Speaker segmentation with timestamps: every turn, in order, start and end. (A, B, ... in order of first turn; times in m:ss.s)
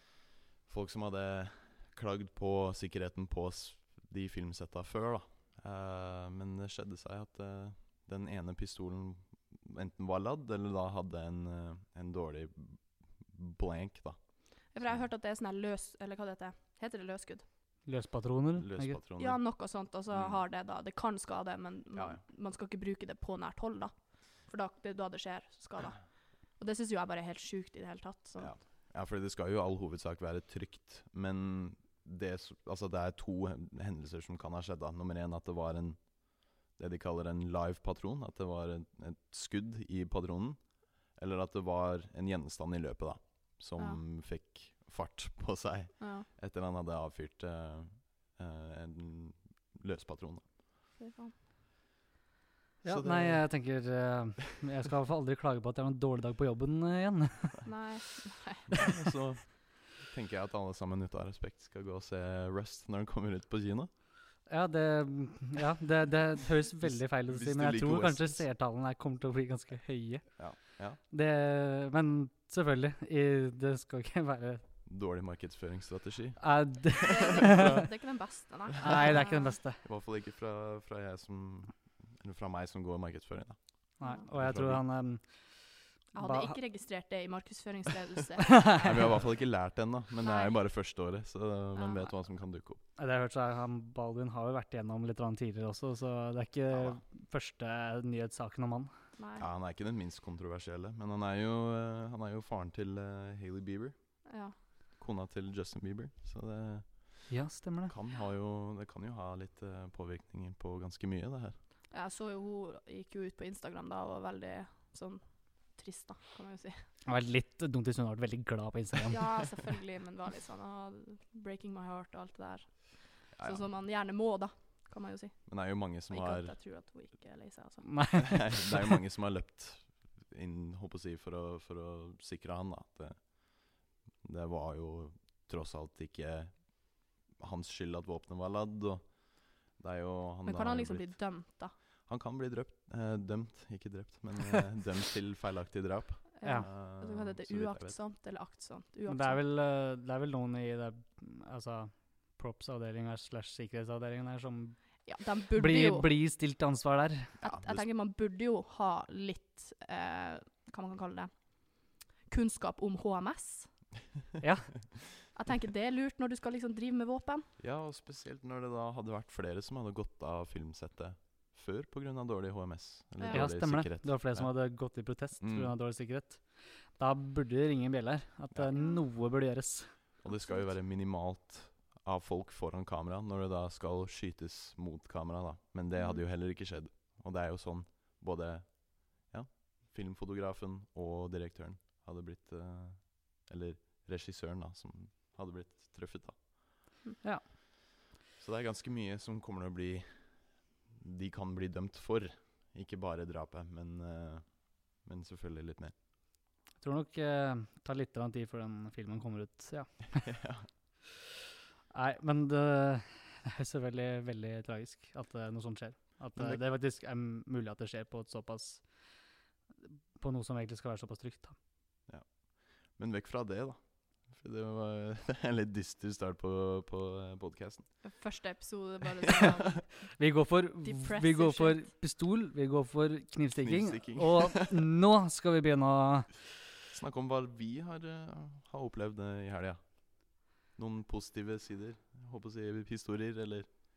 0:00.7-0:15.1 A
0:14.7-0:17.5 B
0:17.8-0:19.0 C
0:18.6-0:19.6 A
0:19.2-0:28.5 B
0:20.1-0:20.4 A
0:21.9-0:22.2 A
0:28.4-0:50.5 A
0:46.0-0:46.3 B
0:51.0-0:51.4 B
0:52.8-0:53.5 A
0:52.8-0:57.8 C
0:57.6-0:58.8 B
0:58.7-1:03.9 A
1:04.5-1:14.6 C
1:06.8-1:08.5 A
1:10.4-1:11.0 A
1:14.9-1:17.9 A
1:16.4-1:17.9 C
1:17.1-1:19.6 B
1:18.7-1:19.8 C
1:19.8-1:24.8 A
1:24.0-1:26.6 C
1:26.1-1:28.8 B
1:28.6-1:28.9 C
1:28.8-1:32.8 A
1:30.2-1:30.6 B
1:31.8-1:32.1 B
1:33.0-1:38.9 C
1:36.7-1:37.0 A
1:39.2-1:39.5 B
1:39.4-1:44.0 A
1:44.3-1:44.6 B
1:45.0-1:47.4 A
1:47.3-1:48.0 C
1:47.9-1:51.6 A
1:51.9-1:56.8 B
1:57.1-1:59.4 C
1:59.1-2:08.0 B
2:03.3-2:03.6 A
2:05.5-2:06.6 A
2:07.9-2:08.8 C
2:08.2-2:21.4 A
2:20.4-2:21.8 B
2:22.0-2:28.0 A
2:26.4-2:29.4 B
2:29.1-2:37.4 C
2:35.0-2:36.1 B
2:37.4-2:37.9 A
2:37.4-2:43.7 B
2:44.4-2:45.0 C
2:45.3-2:47.5 B
2:47.6-2:55.7 A
2:53.2-2:53.5 B
2:53.3-3:00.0 C
2:58.8-2:59.0 B
3:00.2-3:16.4 A
3:00.3-3:00.7 B
3:06.0-3:06.2 B
3:18.4-3:25.9 A
3:26.8-3:30.4 C
3:30.3-3:30.7 A
3:31.9-3:39.2 C
3:36.3-3:36.6 A
3:40.2-3:41.6 C
3:42.1-3:48.0 A
3:48.0-3:50.2 B
3:50.1-3:56.4 C
3:50.8-3:51.9 B
3:53.6-3:54.7 A
3:56.9-4:03.7 A